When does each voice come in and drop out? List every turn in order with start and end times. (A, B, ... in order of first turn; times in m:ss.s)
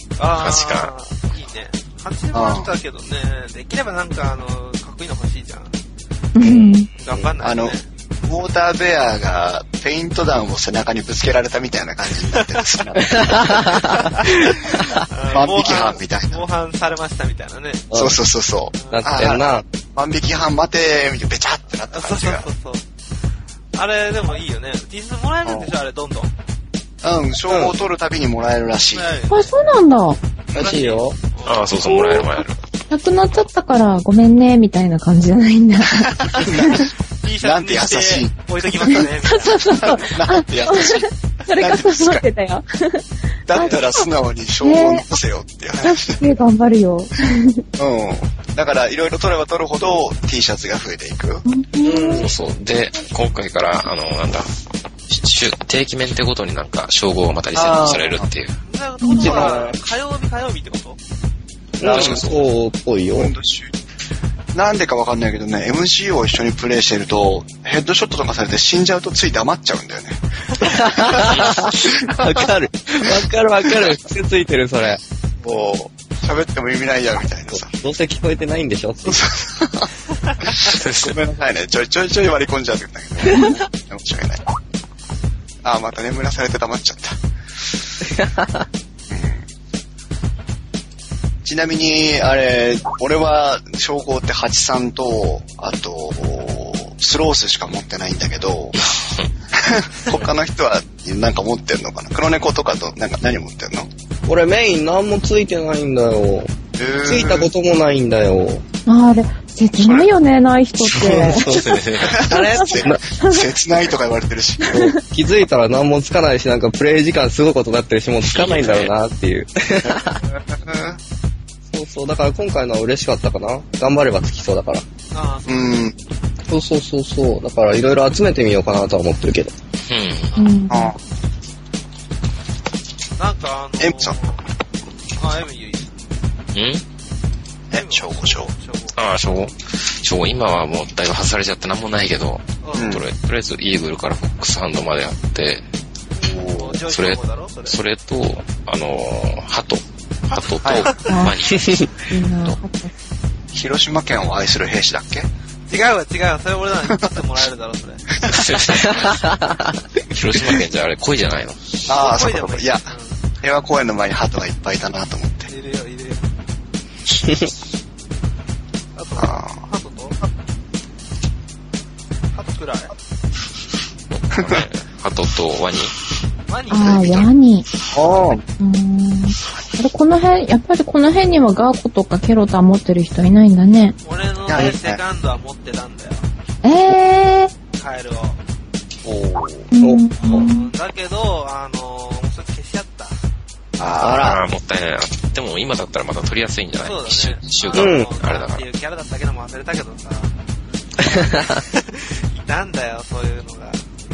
0:00.2-0:05.8 A
0:00.4-0:00.9 B
0:02.3-0:02.7 C
0:06.4-0:06.9 D
0:06.4-0:06.8 E
0:06.9-0:07.9 A
0:07.2-0:14.3 C
0:12.3-0:12.7 A
0:13.0-0:14.0 E
0:13.8-0:17.9 A
0:15.3-0:16.5 C
0:17.9-0:18.2 E
0:17.9-0:22.5 C
0:18.8-0:19.1 A
0:18.9-0:19.7 E
0:21.9-0:22.9 A
0:23.7-0:26.3 A
0:25.4-0:25.7 C
0:27.0-0:29.2 C
0:27.5-0:27.8 E
0:28.9-0:29.6 A
0:29.3-0:30.2 D
0:30.5-0:31.8 A
0:30.5-0:31.2 E
0:31.4-0:32.6 B
0:31.8-0:32.4 D
0:32.9-0:36.9 D
0:36.1-0:39.0 C
0:37.2-0:39.8 A
0:38.9-0:44.1 D
0:39.6-0:42.2 C
0:43.5-0:46.3 C
0:44.6-0:45.1 D
0:45.8-0:47.6 D
0:47.8-0:51.5 C
0:51.5-0:52.3 D
0:51.8-0:52.3 E
0:52.2-0:54.5 B
0:55.1-0:58.6 B
0:57.6-0:58.3 C
0:58.6-1:01.0 A
0:59.0-0:59.4 D
0:59.2-0:59.8 E
1:01.8-1:03.3 E
1:01.8-1:02.4 B
1:01.9-1:02.2 C
1:03.1-1:03.8 C
1:04.5-1:12.5 C
1:10.6-1:15.0 E
1:11.2-1:11.8 B
1:15.4-1:17.7 C
1:17.5-1:19.2 E
1:19.0-1:19.9 C
1:20.4-1:24.4 C
1:20.6-1:21.2 B
1:25.6-1:27.2 C
1:28.1-1:28.7 E
1:29.1-1:29.5 C
1:31.4-1:38.8 C
1:38.8-1:39.3 B
1:39.5-1:43.9 C
1:44.3-1:48.6 E
1:46.8-1:47.5 C
1:48.9-1:51.8 D
1:50.9-1:53.1 E
1:51.3-1:52.2 B
1:52.0-1:54.7 C
1:52.5-1:53.5 D
1:54.6-1:55.0 D
1:54.7-2:00.2 E
1:58.3-1:58.9 B
2:00.2-2:01.0 C
2:01.7-2:04.9 E
2:05.1-2:05.9 A
2:05.5-2:06.0 C
2:06.5-2:09.5 E
2:09.9-2:10.3 B
2:10.3-2:10.7 A
2:10.4-2:10.9 D
2:10.7-2:11.0 C
2:13.2-2:14.4 A
2:13.8-2:14.2 C
2:15.2-2:15.9 A
2:16.5-2:16.8 B
2:17.7-2:18.5 C
2:17.7-2:19.0 A
2:19.0-2:25.6 B
2:22.6-2:23.0 A
2:22.8-2:23.1 C
2:26.2-2:26.8 C
2:26.5-2:27.8 A
2:26.9-2:31.9 B
2:30.4-2:31.2 A
2:30.6-2:30.9 C
2:31.1-2:32.9 D
2:31.5-2:31.9 E
2:33.5-2:35.3 C
2:35.7-2:38.4 A
2:36.9-2:37.3 C
2:38.1-2:38.4 C
2:38.3-2:39.3 B
2:38.8-2:39.8 E
2:40.0-2:41.8 B
2:41.9-2:45.5 C
2:41.9-2:43.3 A
2:45.5-2:46.3 A
2:47.2-2:47.5 E
2:49.0-2:50.3 A
2:49.2-2:49.6 C
2:52.3-2:52.9 A
2:54.3-2:56.0 B
2:56.5-2:57.1 A
2:56.7-2:57.7 D
2:56.8-2:57.3 C
2:57.9-2:58.4 E
2:58.6-3:04.0 D
3:04.0-3:06.3 A
3:04.5-3:05.0 C
3:06.6-3:07.5 D
3:07.7-3:08.4 A
3:09.0-3:09.7 C
3:09.7-3:10.7 D
3:09.8-3:10.5 E
3:10.2-3:13.2 A
3:13.8-3:14.4 C
3:14.2-3:18.6 B
3:16.8-3:20.3 A
3:17.7-3:18.1 E
3:21.0-3:23.8 A